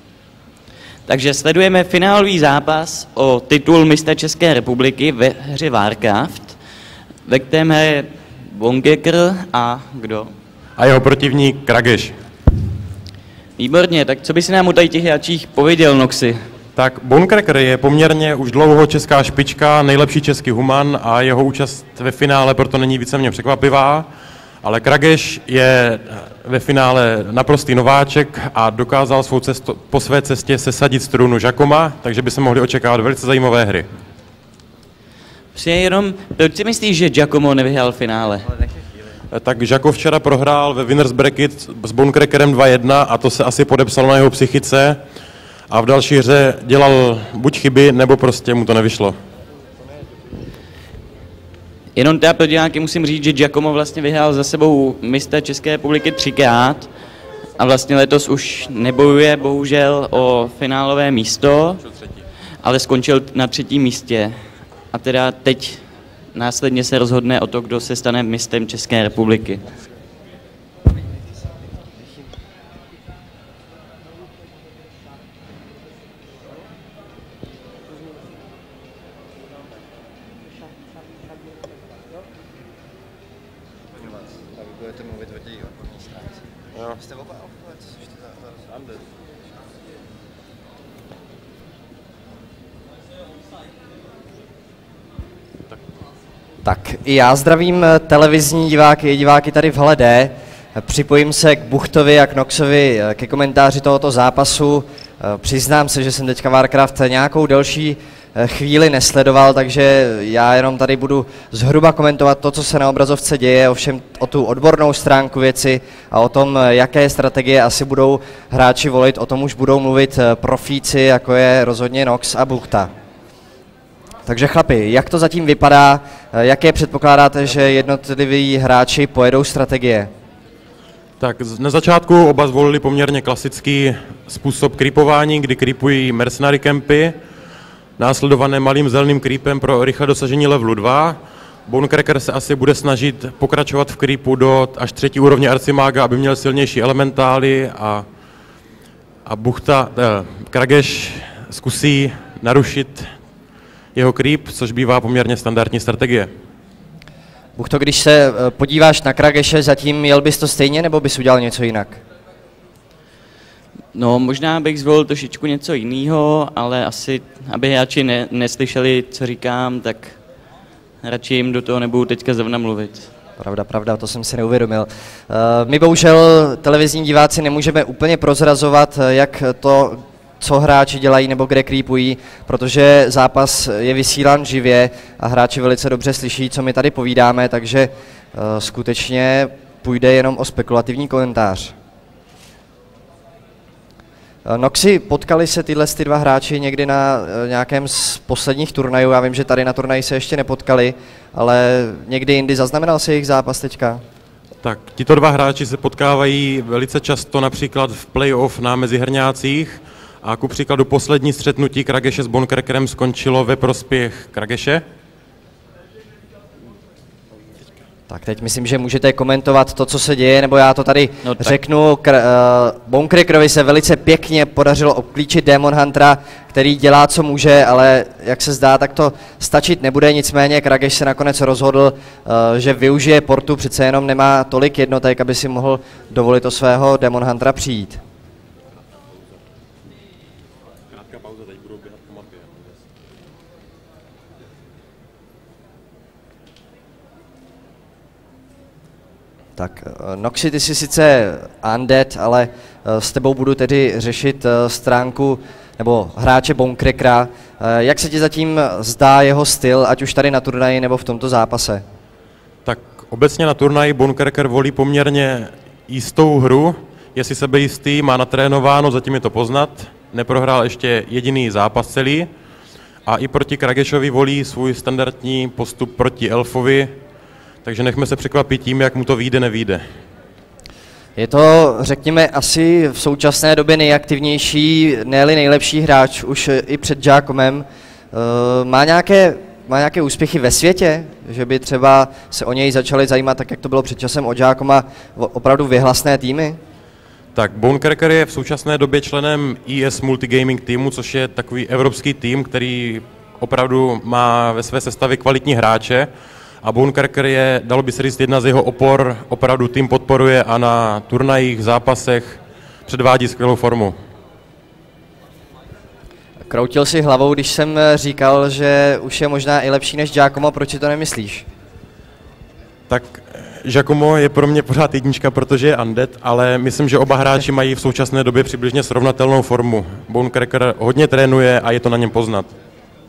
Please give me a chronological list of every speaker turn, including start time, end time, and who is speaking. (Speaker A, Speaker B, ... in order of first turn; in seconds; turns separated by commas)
Speaker A: 1.1-6.6, Speaker A: 7.2-10.3, Speaker B: 10.8-12.1, Speaker A: 13.6-16.4, Speaker B: 16.8-24.1, Speaker B: 24.6-33.9, Speaker A: 35.5-38.5, Speaker B: 39.3-45.0, Speaker B: 45.7-49.1, Speaker A: 52.0-56.9, Speaker A: 57.6-61.8, Speaker A: 62.6-64.3, Speaker A: 64.9-65.8, Speaker A: 66.3-69.6, Speaker C: 84.8-86.2, Speaker C: 87.1-87.6, Speaker C: 96.6-122.9, Speaker C: 124.2-130.1, Speaker B: 131.2-137.1, Speaker B: 138.0-148.0, Speaker B: 149.2-153.1, Speaker B: 153.9-156.3, Speaker C: 157.6-162.0, Speaker A: 163.9-170.2, Speaker A: 171.0-173.1, Speaker C: 173.4-191.7, Speaker C: 194.4-204.0, Speaker B: 204.6-214.8, Speaker C: 218.1-238.0, Speaker A: 221.2-221.6, Speaker B: 240.9-242.8, Speaker C: 249.6-261.8, Speaker B: 262.6-272.3, Speaker B: 273.1-276.9, Speaker B: 277.6-279.8, Speaker C: 281.1-296.6, Speaker B: 297.3-306.1, Speaker B: 306.6-313.9, Speaker C: 316.5-321.4, Speaker B: 322.9-332.5